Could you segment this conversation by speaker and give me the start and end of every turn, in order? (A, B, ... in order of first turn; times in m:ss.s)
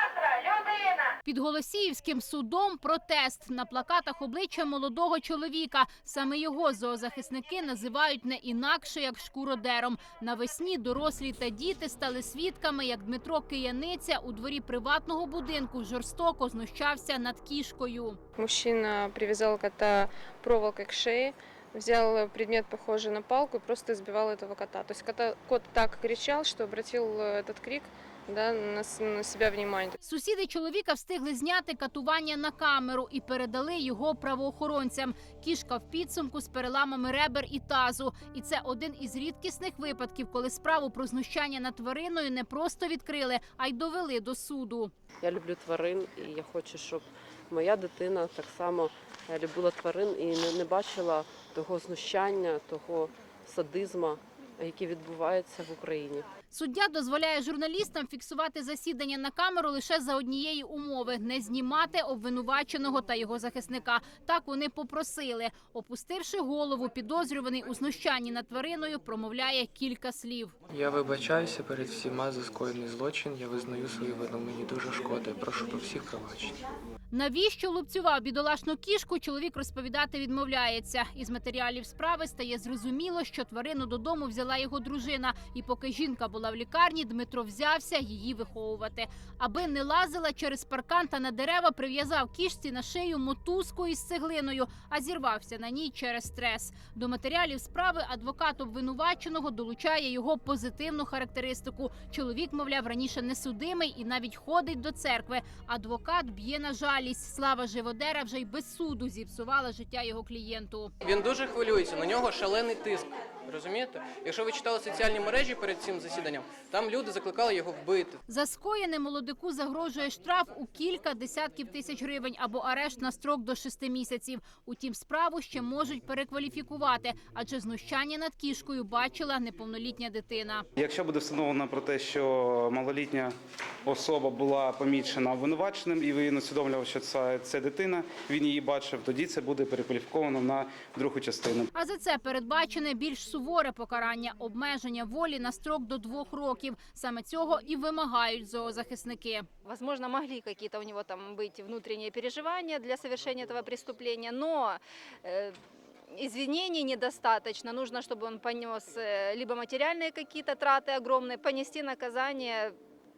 0:01.2-0:18.2 A
0:18.4-0:30.0 B
0:30.0-0:44.9 A
0:45.2-0:56.2 C
0:56.5-1:10.5 A
1:10.7-1:16.6 D
1:17.1-1:50.9 A
1:51.0-1:58.2 E
1:58.3-2:10.6 A
2:10.8-2:13.3 F
2:13.8-2:21.7 F
2:21.7-2:29.5 A
2:29.6-2:35.6 G
2:36.1-2:42.7 G